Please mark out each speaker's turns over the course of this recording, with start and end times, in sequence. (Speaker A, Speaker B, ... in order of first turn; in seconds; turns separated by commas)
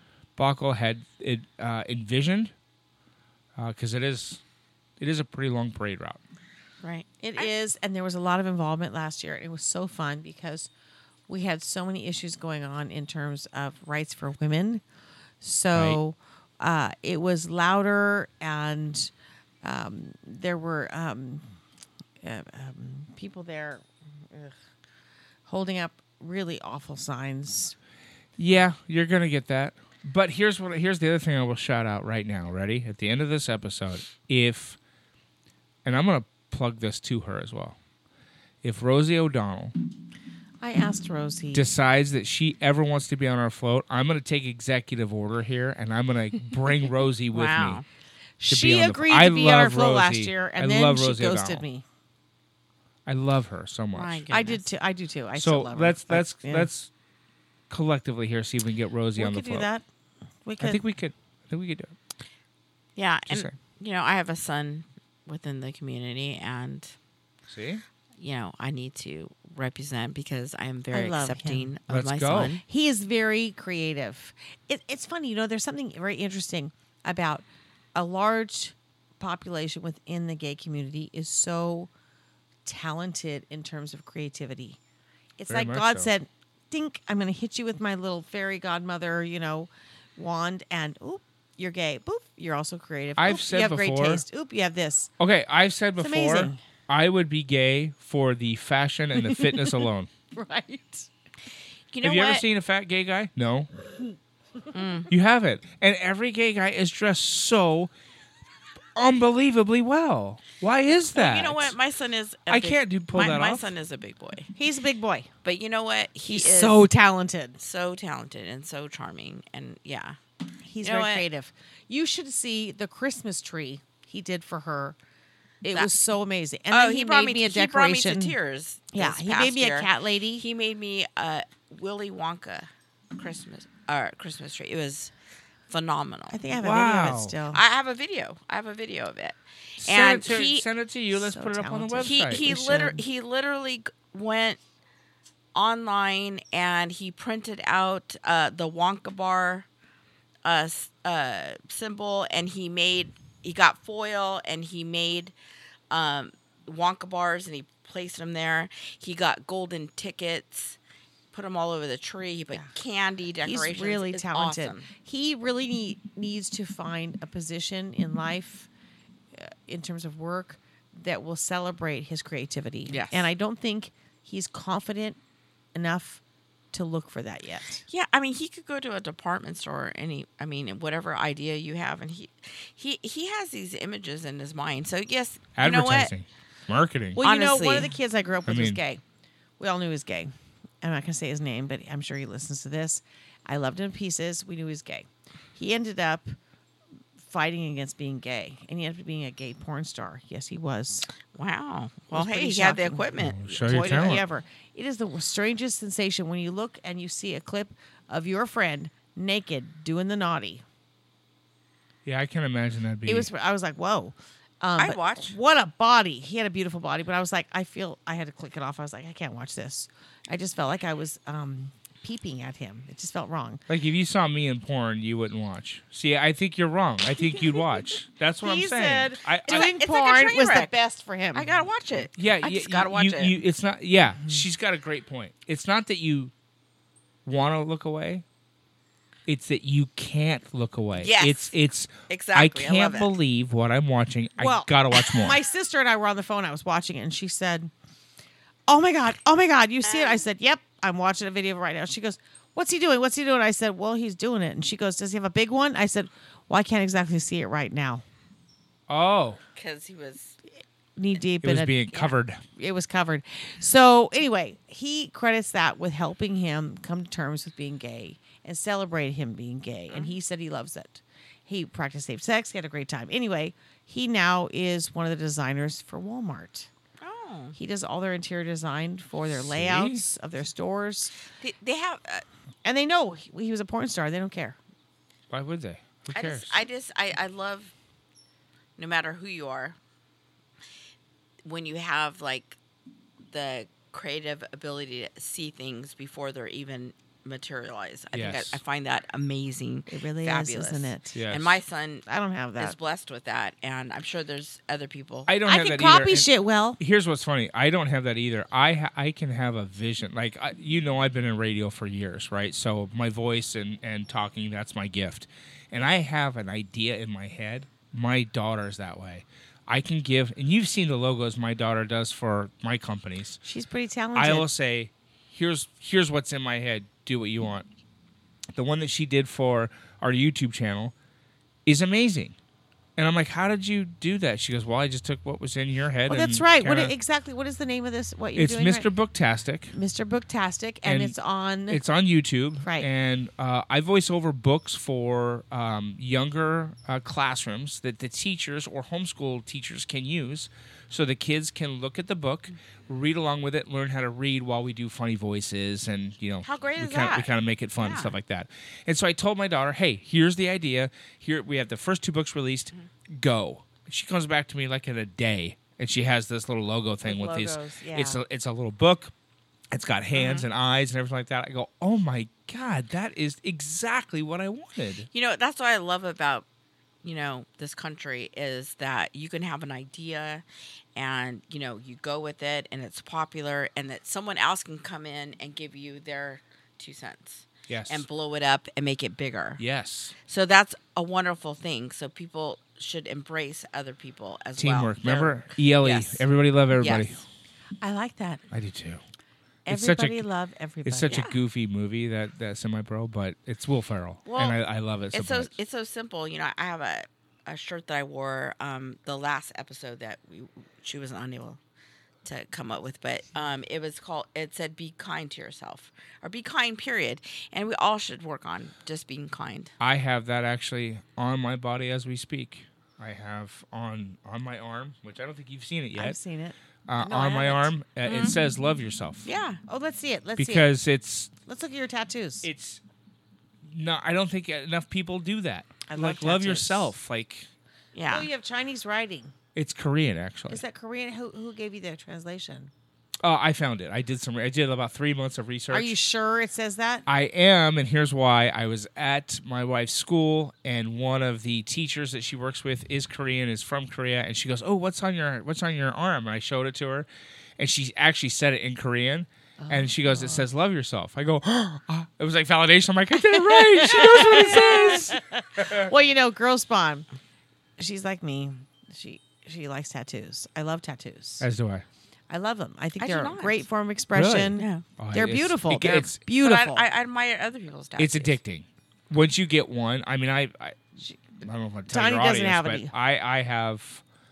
Speaker A: 0.4-2.5, Speaker A: 3.5-4.4, Speaker A: 5.0-6.2, Speaker B: 6.8-7.5, Speaker C: 7.2-10.7, Speaker C: 11.3-14.8, Speaker C: 15.4-19.1, Speaker C: 19.6-21.4, Speaker C: 22.2-24.5, Speaker C: 25.4-27.7, Speaker A: 28.4-34.8, Speaker A: 35.8-37.8, Speaker A: 38.6-39.7, Speaker C: 40.6-41.7, Speaker A: 41.5-47.8, Speaker B: 47.3-47.8, Speaker C: 48.4-51.8, Speaker A: 48.5-51.6, Speaker A: 53.0-54.2, Speaker B: 53.9-54.6, Speaker C: 54.3-56.7, Speaker A: 55.4-56.9, Speaker A: 57.7-59.7, Speaker C: 59.1-59.8, Speaker C: 60.4-60.8, Speaker A: 60.6-61.9, Speaker B: 63.0-66.9, Speaker A: 63.3-63.5, Speaker A: 67.5-67.8, Speaker B: 68.2-72.6, Speaker C: 70.9-71.7, Speaker A: 71.9-72.5, Speaker C: 72.3-77.4, Speaker C: 77.9-81.9, Speaker C: 82.6-84.8, Speaker C: 85.4-95.1, Speaker A: 85.5-86.1, Speaker A: 93.2-94.2, Speaker A: 95.2-100.1, Speaker C: 96.0-96.6, Speaker C: 99.3-99.8, Speaker C: 100.3-101.1, Speaker B: 101.9-102.4, Speaker A: 102.0-103.7, Speaker B: 104.7-105.1, Speaker A: 105.1-107.9, Speaker A: 108.9-111.8, Speaker B: 111.1-114.5, Speaker A: 112.5-113.7, Speaker C: 114.5-115.3, Speaker B: 115.4-116.8, Speaker C: 116.2-117.6, Speaker B: 117.6-120.2, Speaker C: 120.7-125.0, Speaker B: 120.8-121.2, Speaker C: 125.6-128.3, Speaker B: 126.7-135.1, Speaker C: 128.9-130.4, Speaker B: 135.7-136.4, Speaker C: 136.3-137.6, Speaker A: 136.6-137.4, Speaker B: 137.5-140.6, Speaker A: 139.8-142.4, Speaker C: 141.1-143.0, Speaker B: 142.0-144.6, Speaker B: 145.5-149.7, Speaker B: 150.4-155.3, Speaker B: 155.9-160.8, Speaker B: 161.3-164.9, Speaker C: 163.4-168.7, Speaker C: 169.3-175.2, Speaker B: 172.9-173.2, Speaker C: 175.7-176.2, Speaker C: 176.7-177.8, Speaker B: 177.9-186.1, Speaker A: 185.6-187.2, Speaker C: 187.2-189.0, Speaker B: 187.2-187.9, Speaker A: 188.5-188.8, Speaker C: 189.6-196.3, Speaker C: 197.2-201.1, Speaker B: 201.3-204.2, Speaker C: 202.1-203.1, Speaker A: 203.2-204.2, Speaker C: 203.7-210.6, Speaker A: 212.0-213.3, Speaker C: 213.1-223.6, Speaker B: 214.8-215.3, Speaker A: 223.7-229.7, Speaker C: 228.4-231.4, Speaker B: 229.5-230.7, Speaker B: 231.3-233.3, Speaker A: 231.9-236.3, Speaker A: 237.2-238.2, Speaker A: 239.2-245.4, Speaker B: 240.9-241.6, Speaker B: 242.1-243.1, Speaker C: 244.4-247.7, Speaker C: 248.7-258.0, Speaker B: 249.8-250.2, Speaker A: 258.9-259.4, Speaker B: 259.6-260.3, Speaker C: 261.0-276.7, Speaker A: 261.4-262.4, Speaker B: 277.0-277.6, Speaker C: 277.5-281.1, Speaker A: 279.3-280.0, Speaker B: 281.4-282.2, Speaker C: 282.6-284.6, Speaker A: 285.3-286.6, Speaker B: 286.1-287.7, Speaker B: 288.8-289.8, Speaker B: 291.4-292.6, Speaker B: 293.3-302.1, Speaker A: 298.1-298.6, Speaker C: 299.9-301.1, Speaker A: 301.1-301.6, Speaker C: 302.1-302.8, Speaker B: 302.6-305.3, Speaker A: 305.2-306.3, Speaker C: 305.4-306.8, Speaker A: 306.8-323.4, Speaker C: 323.4-324.5, Speaker A: 324.1-327.7, Speaker A: 328.5-330.9, Speaker A: 331.6-332.3, Speaker A: 333.0-336.9, Speaker C: 336.1-338.9, Speaker A: 338.4-339.7, Speaker C: 339.7-341.8, Speaker A: 340.8-341.1, Speaker A: 341.7-369.1, Speaker C: 342.6-342.9, Speaker C: 356.4-357.3, Speaker B: 357.8-358.1, Speaker C: 367.0-368.2, Speaker A: 369.7-375.1, Speaker B: 370.1-370.4, Speaker B: 375.1-376.4, Speaker B: 377.0-380.4, Speaker B: 380.9-389.6, Speaker A: 387.7-388.1, Speaker A: 389.6-390.1, Speaker B: 390.3-396.2, Speaker A: 394.6-397.2, Speaker B: 396.8-397.2, Speaker C: 397.8-398.4, Speaker A: 398.5-399.0, Speaker A: 399.6-400.2, Speaker C: 399.6-401.2, Speaker A: 400.8-405.5, Speaker B: 401.1-401.4, Speaker B: 404.3-404.6, Speaker B: 405.1-411.6, Speaker B: 412.2-419.7, Speaker A: 419.8-426.2, Speaker C: 425.9-427.7, Speaker A: 426.9-429.3, Speaker B: 428.0-428.4, Speaker B: 429.2-429.6, Speaker C: 429.7-430.7, Speaker A: 430.4-431.3, Speaker C: 431.4-432.5, Speaker A: 432.4-432.8, Speaker A: 433.6-437.5, Speaker C: 435.9-436.9, Speaker B: 437.9-438.3, Speaker C: 438.1-439.3, Speaker A: 439.5-440.6, Speaker C: 440.5-442.7, Speaker A: 443.2-445.9, Speaker C: 445.7-447.1, Speaker A: 447.1-457.1, Speaker A: 457.6-465.9, Speaker C: 459.6-460.4, Speaker C: 463.3-467.1, Speaker C: 467.8-471.5, Speaker A: 471.4-471.8, Speaker C: 472.3-476.8, Speaker B: 473.0-473.6, Speaker A: 474.1-476.2, Speaker B: 474.6-474.8, Speaker B: 476.3-478.4, Speaker A: 478.0-480.9, Speaker A: 481.4-484.0, Speaker C: 481.9-482.9